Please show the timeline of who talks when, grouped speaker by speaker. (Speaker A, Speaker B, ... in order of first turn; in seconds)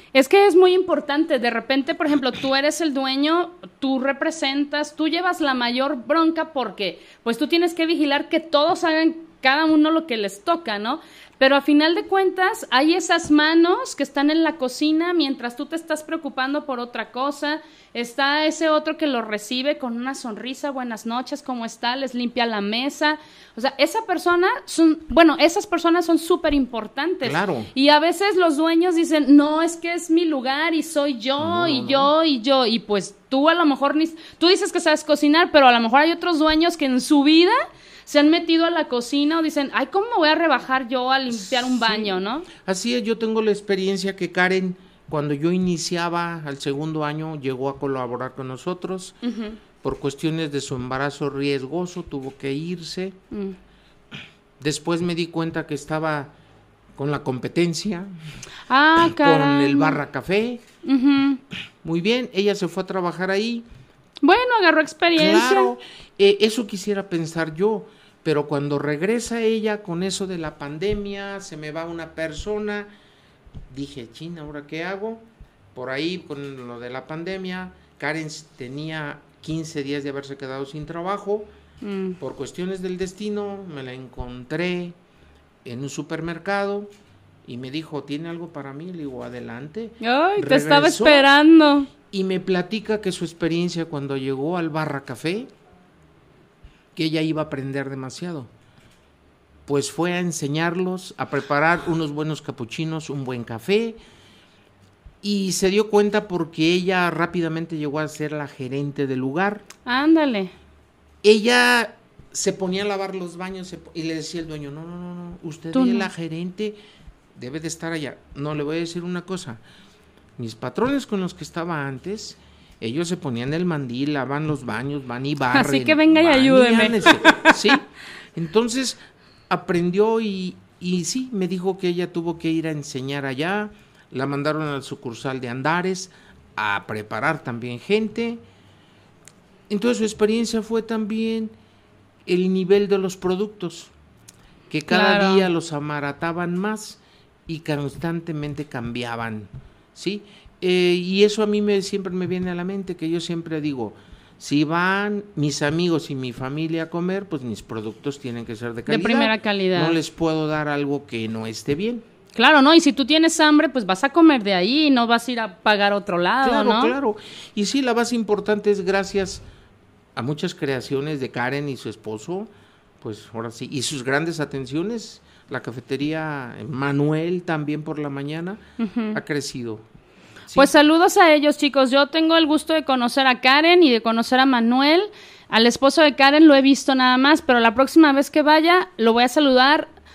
Speaker A: 0.1-42.5, 49.2-49.6, 58.7-60.0, 60.8-61.4, 64.2-65.7, 81.8-82.2, 90.0-91.9, 109.8-110.5, 115.7-116.1, 125.5-127.5, 144.9-145.5, 158.9-160.0, 162.3-166.9, 178.8-179.2, 180.5-189.9
Speaker B: 27.2-27.7, 31.4-32.1, 41.3-49.2, 49.8-53.2, 54.6-56.3, 57.0-58.1, 59.1-60.6, 61.8-63.6, 65.1-72.9, 73.7-81.5, 82.2-84.9, 85.6-86.9, 87.5-91.3, 92.1-95.5, 97.0-98.5, 99.7-104.0, 105.2-109.7, 111.2-116.8, 117.3-119.6, 120.4-129.0, 129.5-138.4, 139.7-141.5, 142.2-143.9, 144.7-162.0, 166.4-169.4, 170.2-178.6, 179.1-179.8